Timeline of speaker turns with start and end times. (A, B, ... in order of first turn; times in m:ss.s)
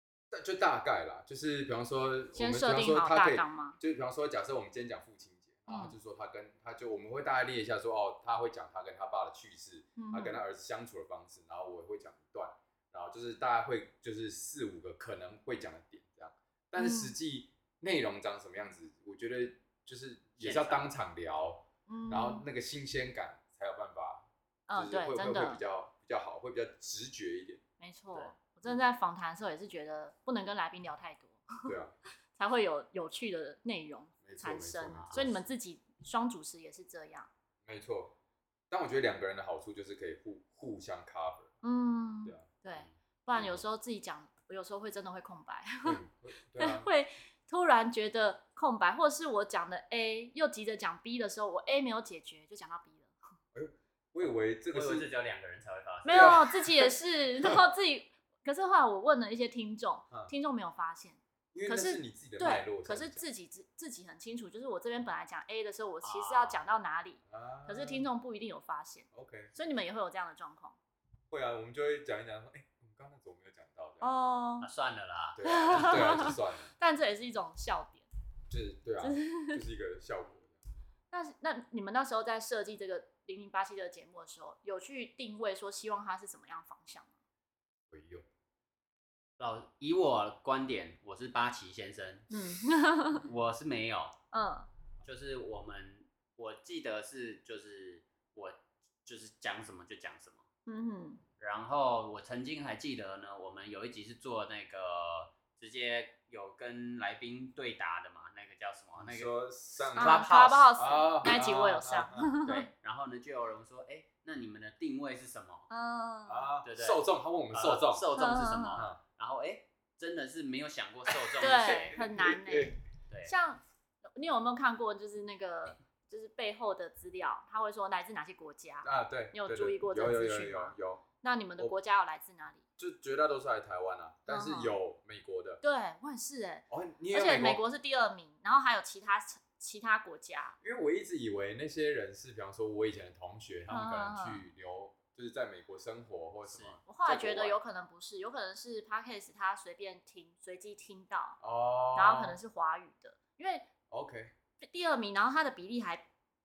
0:00.3-0:27.6 A
0:02.3-0:03.8 B
0:05.7-0:05.9 B
0:10.0-0:10.4 B
0:16.8-0:17.2 B
0:20.4-0:20.9 C
0:21.9-0:22.4 B
0:24.7-0:25.6 B
0:27.8-0:31.7 B
0:31.6-0:32.0 A
0:32.4-0:37.3 B
0:34.2-0:35.4 A
0:34.9-0:35.2 C
0:37.6-0:38.1 A
0:38.7-0:41.5 A
0:41.6-0:46.0 B
0:43.3-0:43.6 A
0:45.8-0:46.9 A
0:46.6-0:53.1 B
0:53.5-0:55.1 A
0:54.7-0:56.5 C
0:56.0-1:10.8 B
0:56.1-0:57.6 A
1:01.5-1:03.2 A
1:06.0-1:06.6 C
1:07.3-1:08.1 A
1:09.1-1:09.5 A
1:11.3-1:14.1 A
1:14.0-1:14.7 B
1:14.6-1:16.0 C
1:15.4-1:16.7 A
1:15.4-1:18.0 B
1:18.5-1:20.6 A
1:19.0-1:19.6 B
1:21.1-1:27.1 B
1:27.9-1:28.2 A
1:29.4-1:32.3 C
1:32.3-1:33.3 B
1:33.2-1:34.2 C
1:34.3-1:34.7 B
1:35.0-1:40.4 C
1:40.6-1:41.2 B
1:41.4-1:49.3 C
1:49.0-1:52.3 A
1:49.9-1:50.9 C
1:49.9-1:52.7 B
1:52.4-1:55.7 C
1:55.7-1:56.5 B
1:56.3-1:58.1 A
1:56.6-2:02.0 C
1:58.2-1:58.8 B
1:58.7-1:59.0 A
2:01.1-2:02.8 A
2:01.4-2:03.6 B
2:04.1-2:12.6 B
2:08.8-2:11.0 A
2:12.8-2:15.6 A
2:14.3-2:14.7 B
2:15.6-2:20.6 B
2:16.7-2:17.6 A
2:20.6-2:27.6 A
2:23.7-2:24.4 B
2:26.5-2:26.8 C
2:26.8-2:31.4 B
2:31.4-2:32.4 A
2:31.9-2:33.7 B
2:33.9-2:34.3 A
2:34.6-2:36.0 B